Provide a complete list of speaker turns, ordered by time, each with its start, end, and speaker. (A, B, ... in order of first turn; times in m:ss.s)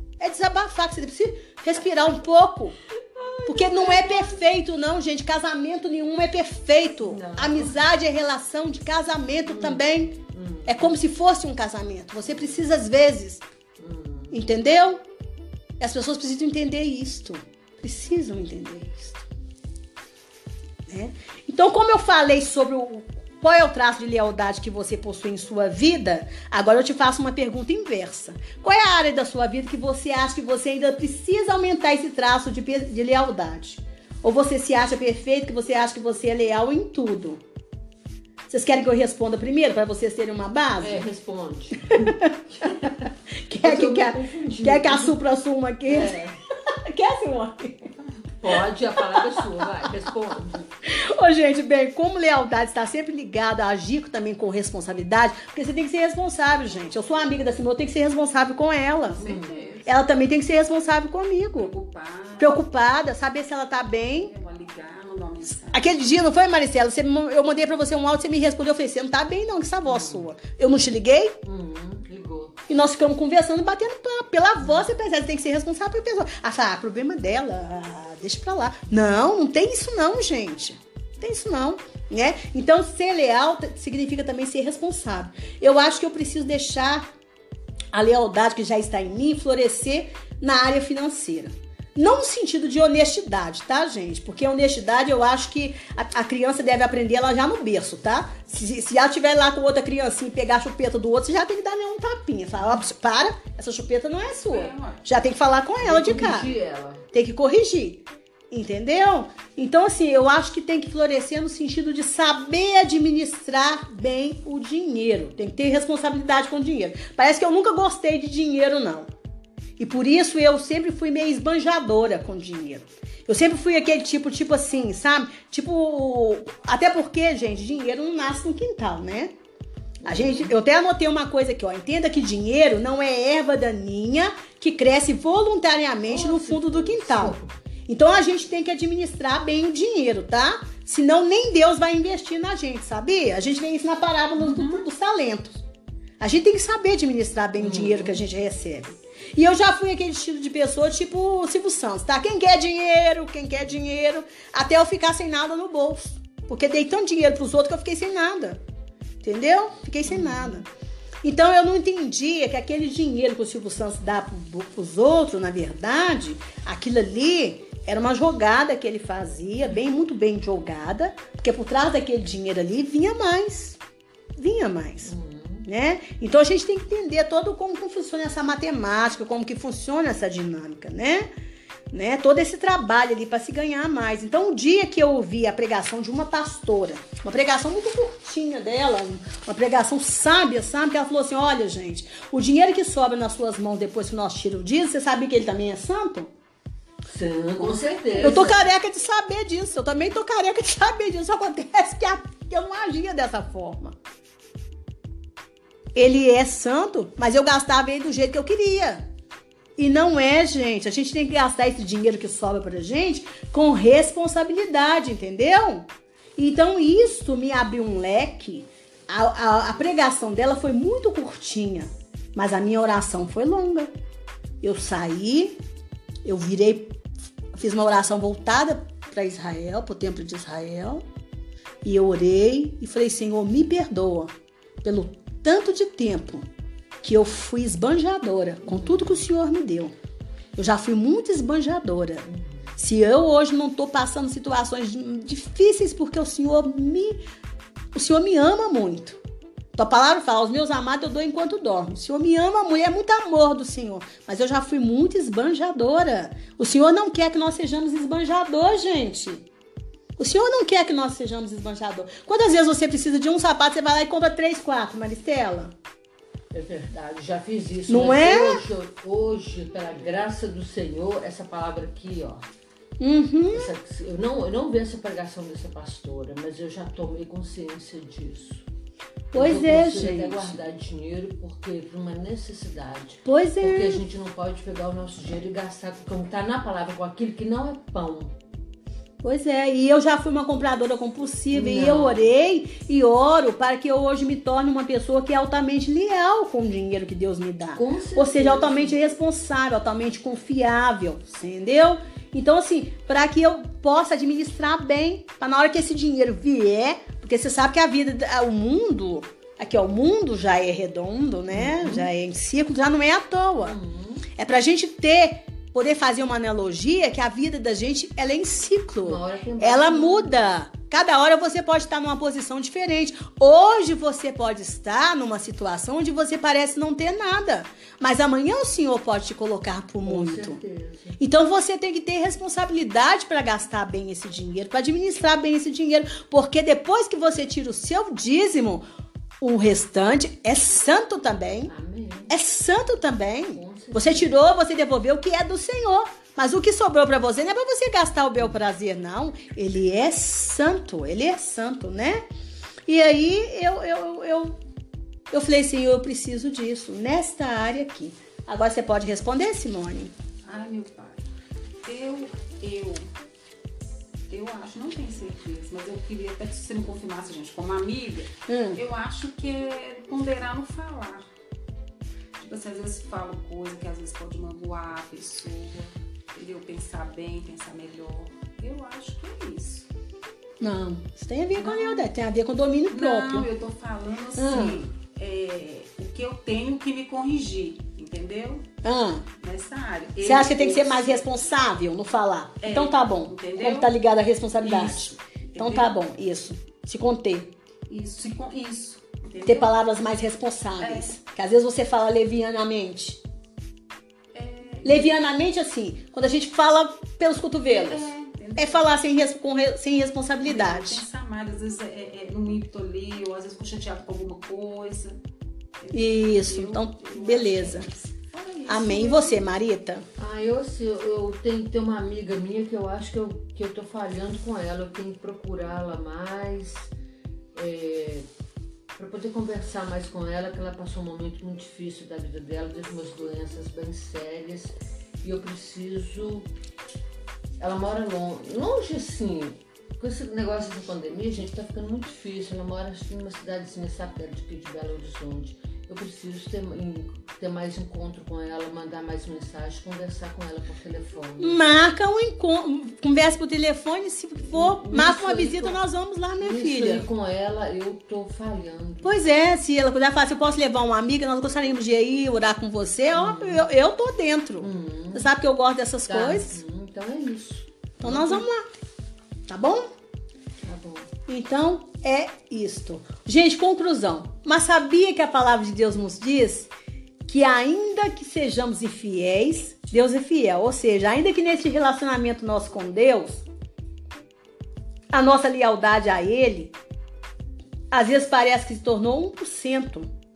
0:00.2-0:02.8 A
0:03.0-0:04.4 B
0:03.4-0:10.1 A
0:07.0-0:07.8 B
0:09.5-0:10.9 B
0:10.6-0:13.4 A
0:13.8-0:14.4 B
0:14.3-0:15.0 A
0:15.8-0:19.2 A
0:20.9-0:37.4 A
0:38.5-0:41.0 A
0:40.8-0:45.2 B
0:41.9-0:42.4 A
0:43.5-0:47.9 A
0:45.9-0:46.4 B
0:48.4-0:50.7 B
0:49.1-0:49.7 A
0:50.8-0:59.2 A
0:59.0-0:59.9 C
0:59.2-0:59.7 B
0:59.8-1:01.7 A
1:01.5-1:02.6 C
1:02.4-1:04.3 A
1:04.1-1:06.0 C
1:05.7-1:11.4 A
1:09.8-1:10.3 B
1:11.4-1:12.6 B
1:12.7-1:27.1 A
1:27.9-1:46.6 A
1:44.4-1:45.2 C
1:45.8-1:47.0 B
1:47.1-1:59.1 A
1:59.8-2:09.3 A
2:10.0-2:10.5 B
2:10.0-2:25.6 A
2:16.0-2:17.5 B
2:24.4-2:24.8 C
2:26.2-2:38.6 A
2:27.6-2:28.2 B
2:39.2-2:40.7 A
2:40.1-2:40.6 B
2:41.2-2:53.8 A
2:54.4-2:55.1 A
2:55.0-2:55.7 B
2:55.6-3:01.3 A
3:01.9-3:16.3 A
3:17.1-3:18.6 B
3:17.6-3:24.0 A
3:25.9-3:29.0 A
3:29.8-3:43.9 A
3:44.6-3:45.6 A
3:46.2-3:47.0 A
3:47.5-3:51.0 A
3:51.8-3:56.4 A
3:57.0-3:59.9 A
3:58.6-3:59.2 B
4:00.6-4:07.2 A
4:02.2-4:02.7 B
4:07.9-4:09.2 A
4:09.7-4:19.5 A
4:20.2-4:25.7 A
4:26.5-4:32.4 B
4:27.9-4:28.6 A
4:33.0-4:33.7 A
4:33.5-4:38.6 B
4:39.3-4:40.6 A
4:39.3-4:48.4 B
4:43.2-4:44.0 A
4:49.2-5:13.8 A
4:51.5-4:52.2 B
4:57.7-4:59.0 B
5:11.5-5:12.1 B
5:13.6-5:14.3 B
5:14.3-5:30.6 A
5:19.0-5:20.4 B
5:30.0-5:31.2 B
5:31.2-5:38.8 A
5:39.4-5:41.7 A
5:41.7-5:42.3 B
5:42.3-5:52.2 A
5:43.5-5:44.3 B
5:52.9-5:54.6 A
5:55.3-6:00.1 A
6:00.4-6:01.2 C
6:01.8-6:03.1 C
6:04.3-6:11.2 C
6:08.5-6:08.8 A
6:12.4-6:19.9 C
6:20.6-6:23.5 A
6:21.6-6:22.1 C
6:22.9-6:28.6 C
6:24.4-6:24.8 A
6:28.8-6:29.2 A
6:29.4-6:31.3 C
6:30.2-6:37.5 A
6:32.6-6:33.9 C
6:34.6-6:35.9 C
6:37.9-6:39.7 C
6:39.4-6:43.2 A
6:40.8-6:41.1 C
6:44.3-6:45.1 C
6:44.8-6:51.0 A
6:47.8-6:48.9 C
6:50.4-6:55.2 C
6:55.8-6:59.5 C
6:55.9-6:57.9 A
6:58.7-7:00.0 A
7:00.2-7:06.9 B
7:07.5-7:08.3 B
7:09.0-7:16.5 B
7:17.6-7:31.6 B
7:31.4-7:37.0 A
7:34.5-7:35.8 B
7:36.4-7:39.2 B
7:39.0-7:46.6 A
7:43.1-7:43.7 B
7:44.6-7:45.3 B
7:46.1-7:48.4 B
7:48.0-7:48.6 A
7:49.5-7:49.9 A
7:50.6-7:51.1 B
7:51.3-7:56.7 A
7:57.3-8:03.4 A
8:05.1-8:06.7 A
8:07.9-8:10.1 A